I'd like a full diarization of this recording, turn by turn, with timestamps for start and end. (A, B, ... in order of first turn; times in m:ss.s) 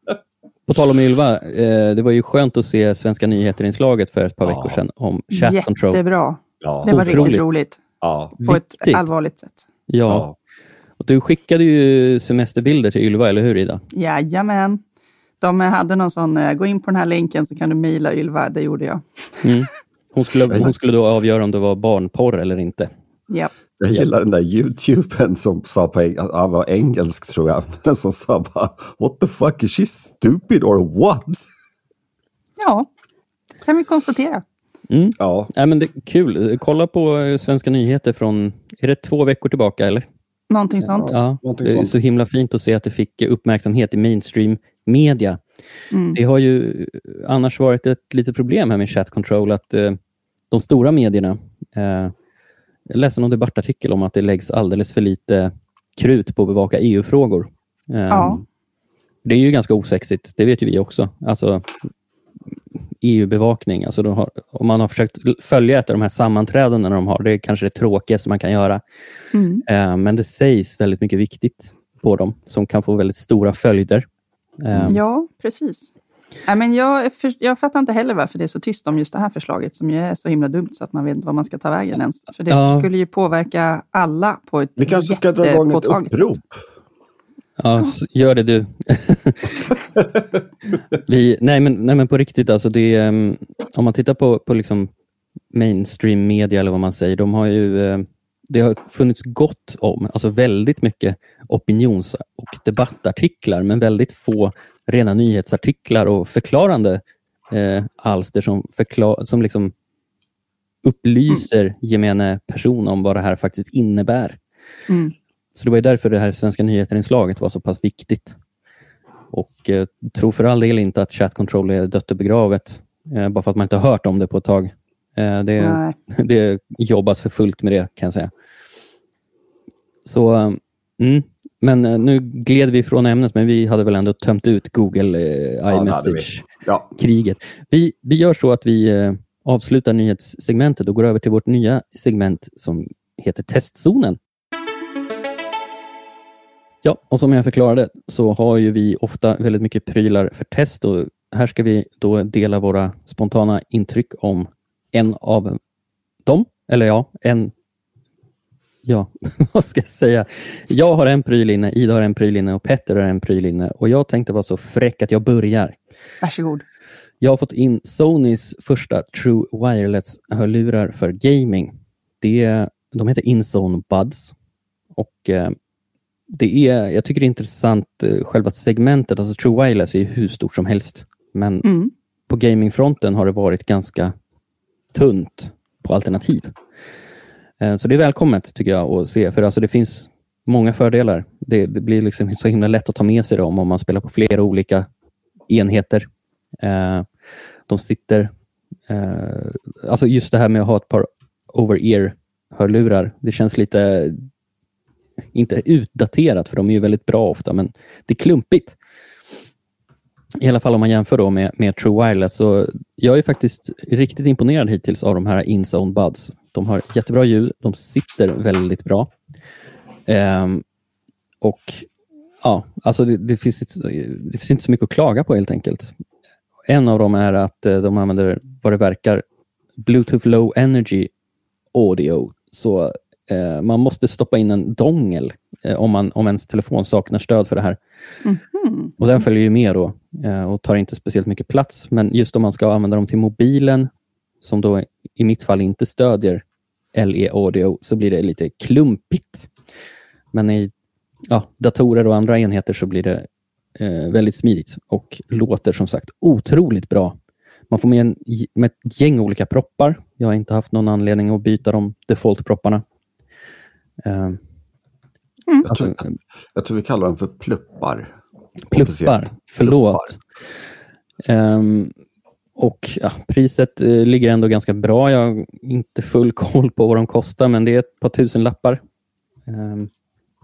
0:00.7-0:06.0 A
0:04.4-0:04.8 B
0:05.3-0:07.8 C
0:06.6-0:07.4 B
0:06.9-0:07.5 A
0:08.0-0:08.4 B
0:08.4-0:09.6 C
0:08.4-0:09.0 A
0:09.9-0:10.3 A
0:10.1-0:10.3 B
0:11.0-0:13.8 A
0:13.9-0:14.8 C
0:15.4-0:19.4 C
0:19.4-0:22.9 A
0:23.8-0:31.5 B
0:32.6-0:32.9 C
0:33.6-0:34.4 C
0:34.9-0:40.1 A
0:35.2-0:35.5 B
0:40.5-0:41.1 C
0:41.0-0:41.9 B
0:41.1-0:45.4 A
0:45.9-0:46.2 C
0:46.1-0:50.0 A
0:50.5-0:52.1 A
0:52.9-0:58.4 A
0:58.1-0:58.4 C
0:59.2-1:01.7 A
1:03.0-1:08.8 A
1:09.3-1:09.6 C
1:09.6-1:14.0 A
1:14.6-1:15.0 A
1:14.7-1:15.0 B
1:14.9-1:15.9 C
1:16.5-1:26.4 C
1:22.5-1:22.9 A
1:24.8-1:26.5 B
1:27.6-1:29.7 A
1:30.9-1:34.9 A
1:35.5-1:49.7 A
1:50.8-1:54.4 A
1:54.9-1:55.1 C
1:55.5-1:58.4 A
1:59.3-2:08.3 A
2:05.6-2:05.9 C
2:10.0-2:24.2 A
2:15.7-2:16.9 B
2:26.8-2:35.6 A
2:36.2-2:37.5 A
2:38.8-2:45.8 A
2:46.2-2:46.6 C
2:47.2-2:54.3 A
2:55.0-2:55.5 A
2:56.3-3:01.7 A
3:01.6-3:01.9 C
3:02.3-3:04.1 A
3:04.9-3:06.5 A
3:07.6-3:14.9 A
3:15.5-3:16.1 A
3:16.6-3:17.1 A
3:17.7-3:18.3 A
3:18.9-3:24.3 A
3:25.3-3:28.8 A
3:30.4-3:39.1 A
3:40.1-3:40.6 A
3:41.4-3:41.9 A
3:42.4-3:45.9 A
3:46.7-3:49.2 A
3:49.8-3:51.1 A
3:51.7-3:57.8 A
3:58.2-3:58.9 C
3:59.0-4:03.9 A
4:04.4-4:09.5 A
4:10.3-4:10.7 A
4:11.3-4:17.2 A
4:17.7-4:22.8 A
4:24.0-4:24.4 A
4:25.6-4:26.0 B
4:25.7-4:26.2 A
4:26.5-4:28.1 B
4:28.7-4:30.2 A
4:28.7-4:30.1 B
4:31.2-4:31.9 A
4:32.6-4:38.8 A
4:39.5-4:39.9 A